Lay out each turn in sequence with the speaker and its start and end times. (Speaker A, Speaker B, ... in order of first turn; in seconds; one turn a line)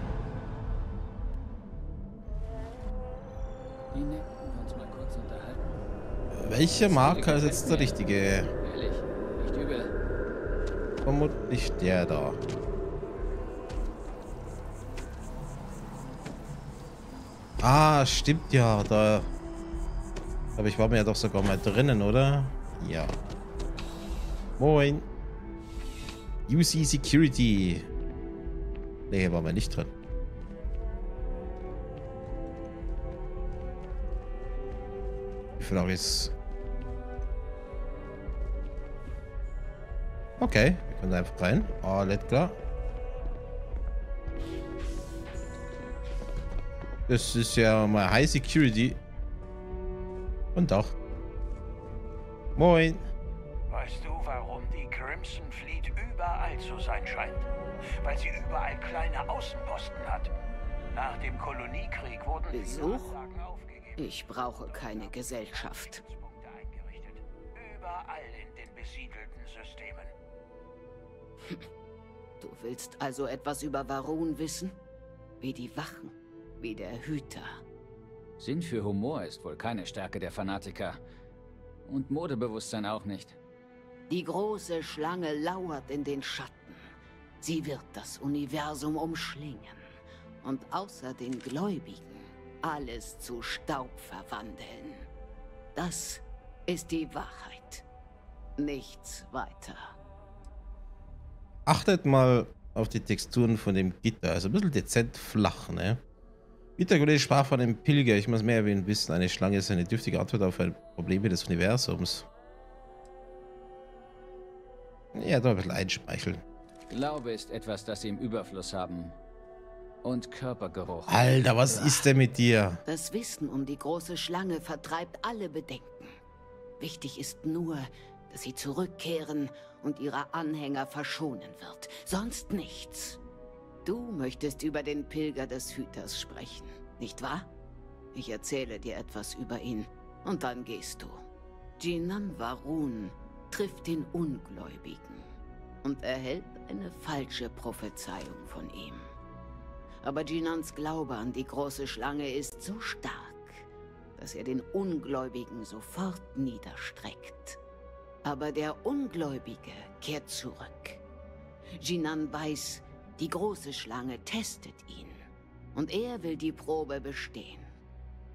Speaker A: 3.9-5.8
Speaker B: 6.3-8.5
Speaker A: 6.8-8.0
Speaker A: 8.6-9.9
Speaker B: 11.1-12.4
Speaker B: 17.6-19.3
Speaker B: 20.6-23.2
Speaker B: 24.6-25.1
Speaker B: 26.5-27.9
Speaker B: 29.1-29.9
Speaker B: 35.6-36.3
Speaker B: 40.4-42.6
Speaker B: 47.1-49.0
Speaker B: 50.5-51.0
Speaker B: 52.6-53.1
Speaker C: 53.7-57.5
Speaker C: 58.0-60.3
Speaker C: 60.9-70.1
Speaker D: 62.5-63.1
Speaker D: 64.0-66.0
Speaker D: 72.4-74.8
Speaker D: 75.4-77.6
Speaker A: 78.4-81.0
Speaker A: 81.9-83.4
Speaker D: 84.1-86.8
Speaker D: 87.4-89.8
Speaker D: 90.4-95.1
Speaker D: 95.8-97.8
Speaker D: 98.6-99.9
Speaker B: 101.7-106.0
Speaker B: 106.8-112.3
Speaker B: 115.1-116.4
Speaker A: 116.9-119.2
Speaker A: 120.0-122.1
Speaker B: 121.1-122.8
Speaker D: 122.8-126.2
Speaker D: 126.8-133.2
Speaker D: 133.8-137.5
Speaker D: 138.1-141.2
Speaker D: 141.8-145.2
Speaker D: 145.8-149.1
Speaker D: 150.0-153.7
Speaker D: 154.2-157.6
Speaker D: 158.2-161.0
Speaker D: 161.8-167.7